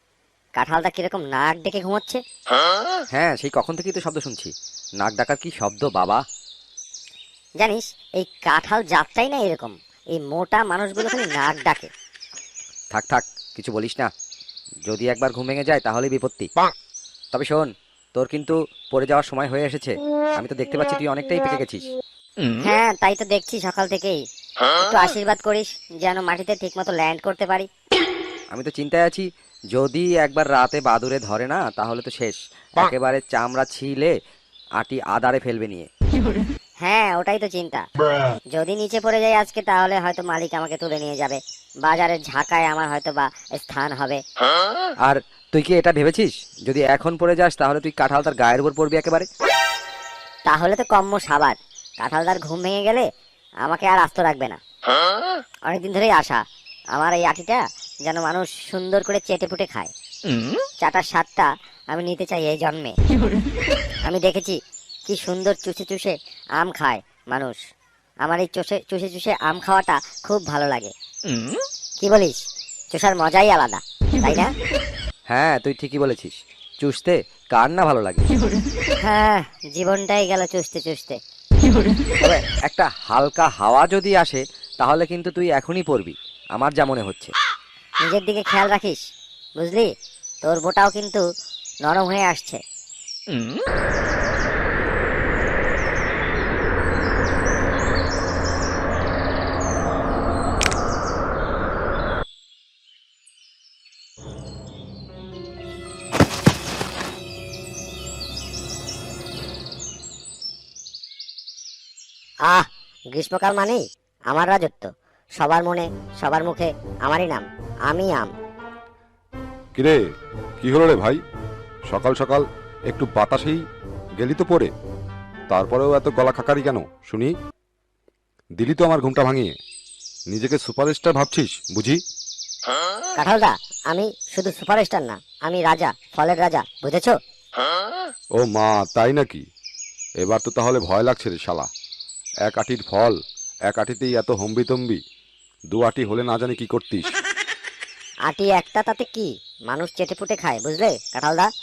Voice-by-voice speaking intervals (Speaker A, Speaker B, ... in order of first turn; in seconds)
Speaker A: 0.6-2.2, 7.6-11.9, 22.6-24.2, 24.8-27.7, 36.8-37.8, 38.5-44.2, 50.5-53.0, 53.6-54.6, 55.6-56.4, 56.9-59.9, 60.8-63.0, 64.0-67.6, 68.2-70.9, 72.0-74.5, 79.0-81.2, 88.0-89.0, 89.6-89.9, 90.4-91.2, 91.8-92.6, 112.5-118.3, 133.2-137.1, 148.3-151.5
Speaker B: 3.1-6.2, 12.9-14.1, 14.8-16.5, 17.3-21.9, 28.5-34.1, 34.8-35.9, 45.0-49.3, 71.3-71.6, 75.3-78.2, 82.2-87.3
Speaker C: 119.7-120.0, 120.6-121.2, 121.9-123.6, 124.2-124.7, 125.5-127.3, 128.6-129.5, 130.3-132.0, 138.4-139.4, 140.2-141.7, 142.4-143.2, 143.7-145.0, 145.7-147.1